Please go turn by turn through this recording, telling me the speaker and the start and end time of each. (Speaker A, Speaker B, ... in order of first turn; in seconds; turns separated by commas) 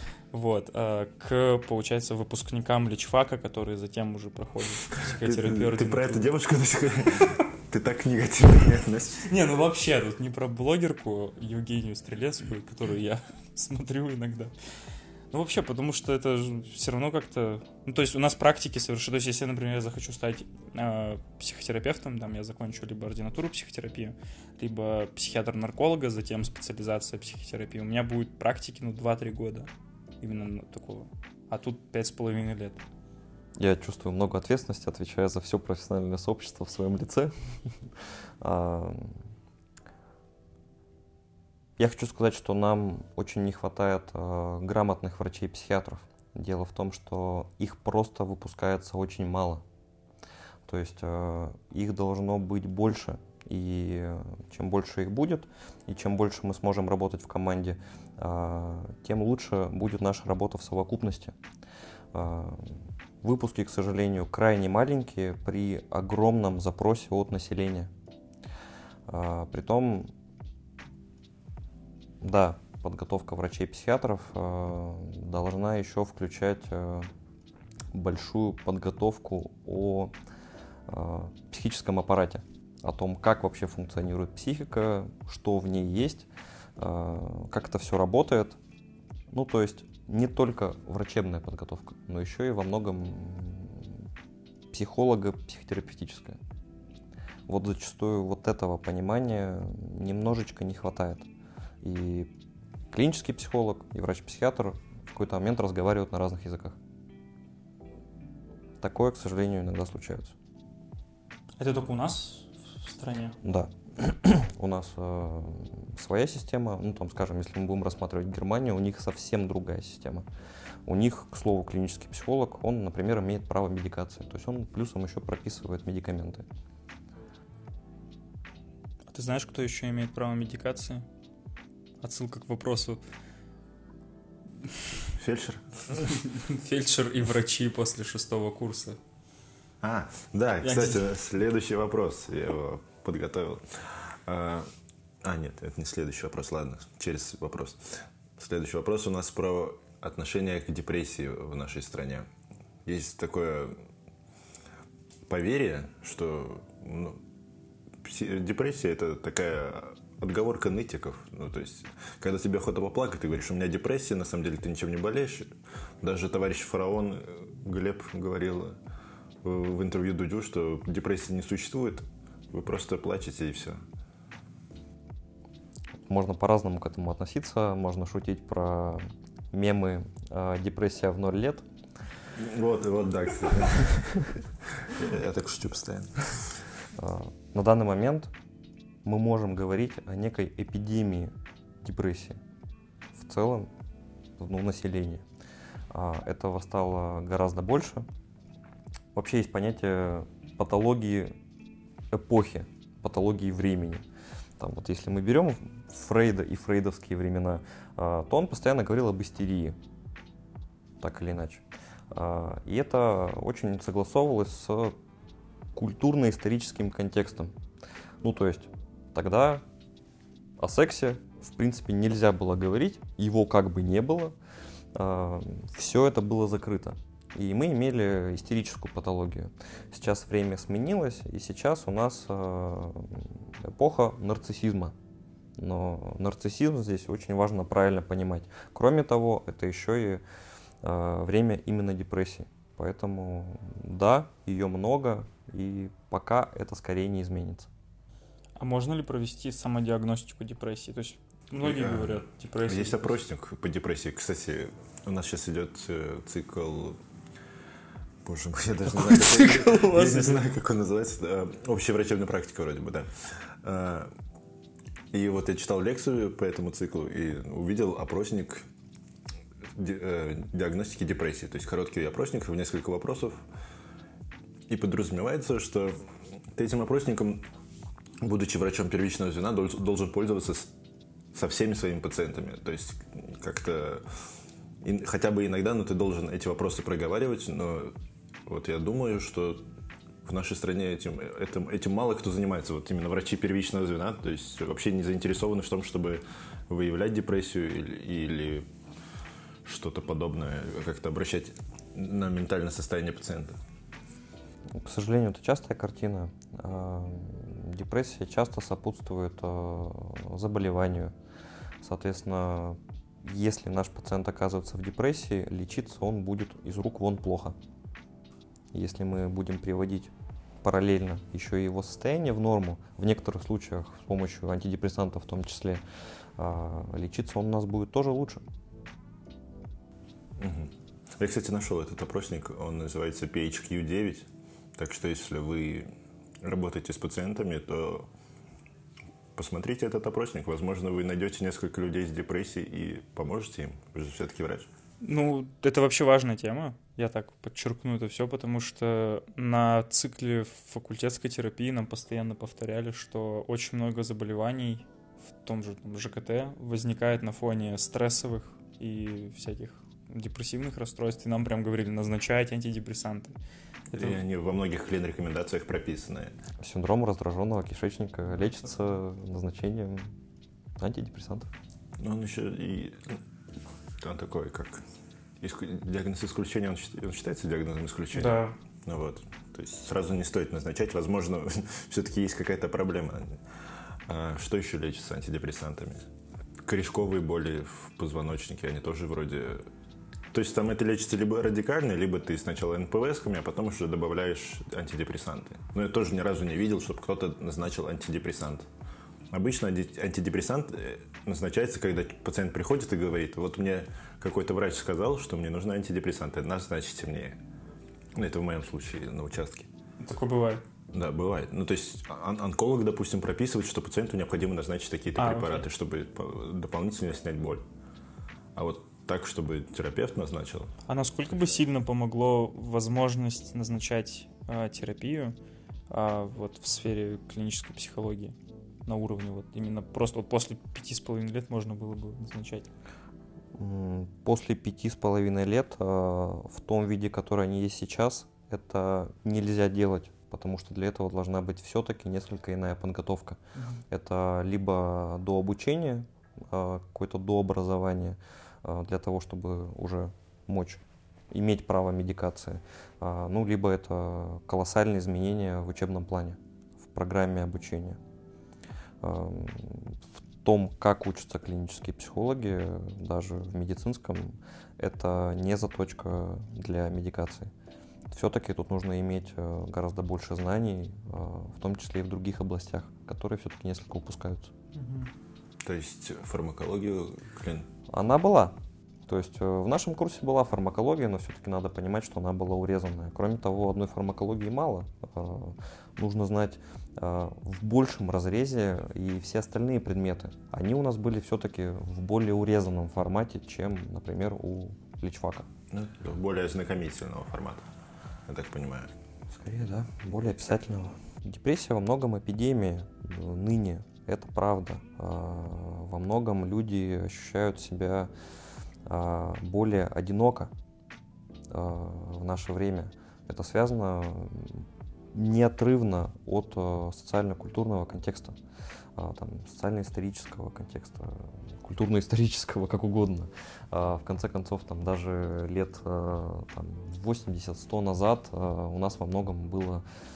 Speaker A: 0.3-6.3, Speaker B: 5.0-9.3, Speaker A: 7.1-7.4, Speaker A: 9.2-14.5, Speaker A: 15.3-29.7, Speaker A: 30.2-32.8, Speaker C: 33.6-37.3, Speaker C: 38.4-39.2, Speaker C: 41.8-49.6, Speaker C: 50.7-61.3, Speaker C: 62.1-67.9, Speaker C: 69.1-70.1, Speaker C: 72.2-77.1, Speaker C: 77.9-80.1, Speaker C: 80.9-88.6, Speaker C: 89.3-93.9, Speaker C: 94.7-96.4, Speaker C: 97.5-101.2, Speaker C: 101.8-102.3, Speaker C: 102.9-106.8, Speaker C: 108.8-110.3, Speaker A: 111.6-113.4, Speaker C: 113.4-120.2, Speaker C: 120.8-126.4, Speaker A: 129.1-131.1, Speaker A: 132.0-133.0, Speaker B: 135.1-136.1, Speaker A: 136.1-139.0, Speaker B: 139.8-144.7, Speaker A: 140.6-141.0, Speaker B: 145.2-152.3, Speaker B: 152.8-153.8, Speaker B: 155.3-157.2, Speaker B: 158.0-168.8, Speaker B: 169.4-173.8, Speaker C: 176.1-181.6, Speaker B: 182.3-186.6, Speaker C: 186.9-188.3, Speaker C: 189.0-192.4, Speaker C: 193.2-193.7, Speaker C: 194.4-195.2, Speaker C: 195.9-198.1, Speaker C: 199.1-201.3, Speaker C: 202.1-204.0, Speaker C: 204.6-209.8, Speaker C: 211.0-214.9, Speaker C: 215.7-217.5, Speaker C: 218.2-219.6, Speaker C: 220.6-224.3, Speaker C: 224.9-234.9, Speaker C: 235.6-240.2, Speaker C: 240.8-247.7, Speaker A: 248.6-253.1, Speaker B: 251.6-257.0, Speaker B: 258.2-264.1, Speaker A: 258.9-260.4, Speaker B: 265.1-268.6, Speaker B: 269.7-273.4, Speaker B: 274.7-277.4, Speaker B: 278.2-280.7, Speaker B: 281.3-284.1, Speaker B: 284.8-289.6, Speaker B: 290.2-298.7, Speaker B: 299.6-303.6, Speaker C: 304.8-311.1, Speaker C: 311.8-317.6, Speaker C: 318.7-320.1, Speaker C: 320.6-325.8, Speaker C: 326.4-328.4, Speaker B: 330.4-335.9, Speaker B: 336.4-338.1, Speaker B: 339.4-344.7, Speaker A: 345.0-363.3, Speaker A: 363.9-364.2, Speaker B: 363.9-366.3, Speaker C: 366.6-370.1, Speaker C: 370.8-371.5, Speaker B: 372.0-373.2, Speaker B: 374.0-374.8, Speaker B: 375.4-383.4, Speaker A: 378.1-378.5, Speaker B: 384.1-386.0, Speaker B: 386.7-389.6, Speaker B: 390.3-398.7, Speaker B: 399.3-407.4, Speaker B: 408.1-409.7, Speaker A: 410.0-410.6, Speaker B: 410.9-417.6, Speaker A: 415.2-415.6, Speaker B: 418.5-420.7, Speaker A: 420.9-425.4, Speaker A: 425.9-432.7, Speaker C: 433.6-443.4, Speaker C: 443.9-458.0, Speaker C: 459.0-467.5, Speaker C: 468.1-474.5, Speaker A: 474.7-475.1, Speaker B: 475.6-477.7, Speaker C: 477.9-478.6, Speaker C: 479.1-495.5, Speaker B: 495.7-497.6, Speaker B: 498.3-498.9, Speaker C: 499.3-508.1, Speaker C: 508.9-510.5, Speaker C: 511.5-518.4, Speaker C: 519.0-529.8